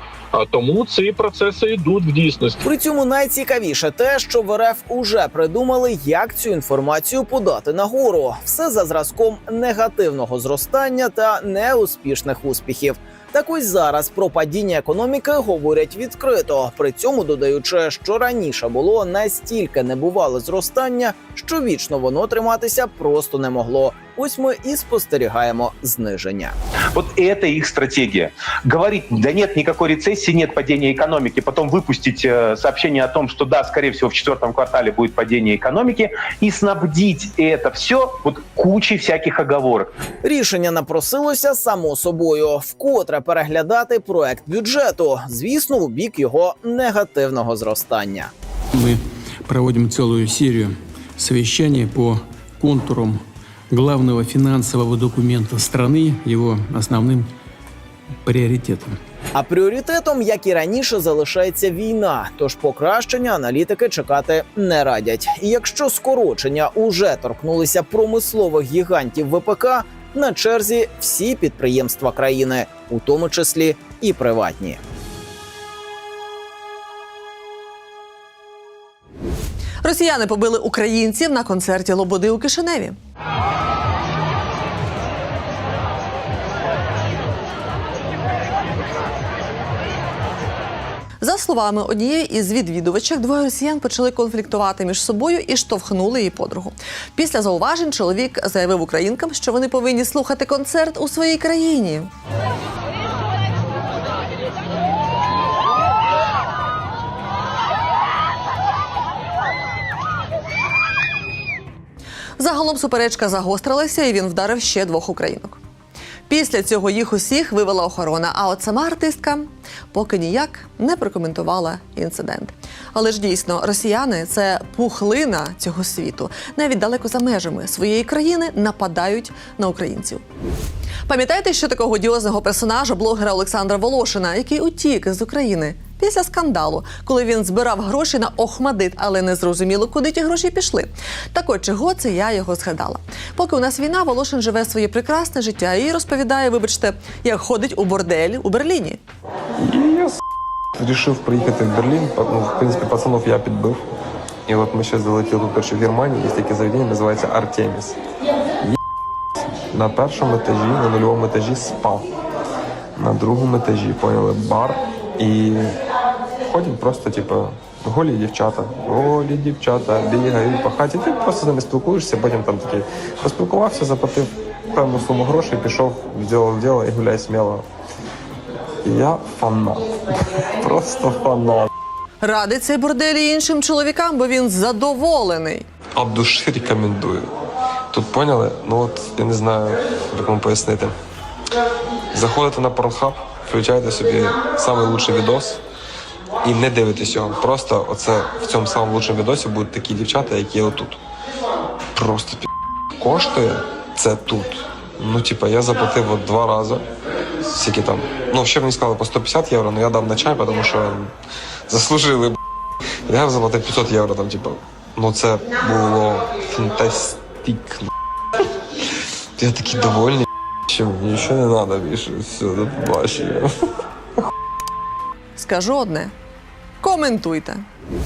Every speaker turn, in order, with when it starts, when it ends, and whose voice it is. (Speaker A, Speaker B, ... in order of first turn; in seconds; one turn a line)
Speaker A: 0.3-2.6
Speaker B: 2.6-26.6
Speaker C: 26.9-39.9
Speaker B: 40.2-48.3
Speaker D: 48.7-57.3
Speaker D: 58.2-59.0
Speaker B: 59.3-74.8
Speaker E: 79.8-83.0
Speaker E: 91.2-102.1
Speaker E: 112.4-115.6
Speaker E: 116.3-130.2
Speaker E: 131.1-149.0
Speaker F: 149.6-150.2
Speaker F: 150.8-153.9
Speaker F: 154.5-158.0
Speaker F: 159.6-162.1
Speaker F: 163.0-165.8
Speaker F: 166.4-177.7
Speaker F: 178.8-181.7
Speaker E: 182.2-185.7
Speaker F: 186.0-187.3
Speaker F: 187.9-190.9
Speaker F: 192.1-195.6
Speaker F: 196.4-201.0
Speaker F: 201.9-202.5
Speaker F: 203.0-206.9
Speaker F: 207.5-211.1
Speaker F: 211.7-212.4
Speaker F: 213.1-217.9
Speaker F: 219.4-223.6
Speaker E: 225.4-226.1
Speaker E: 226.8-227.7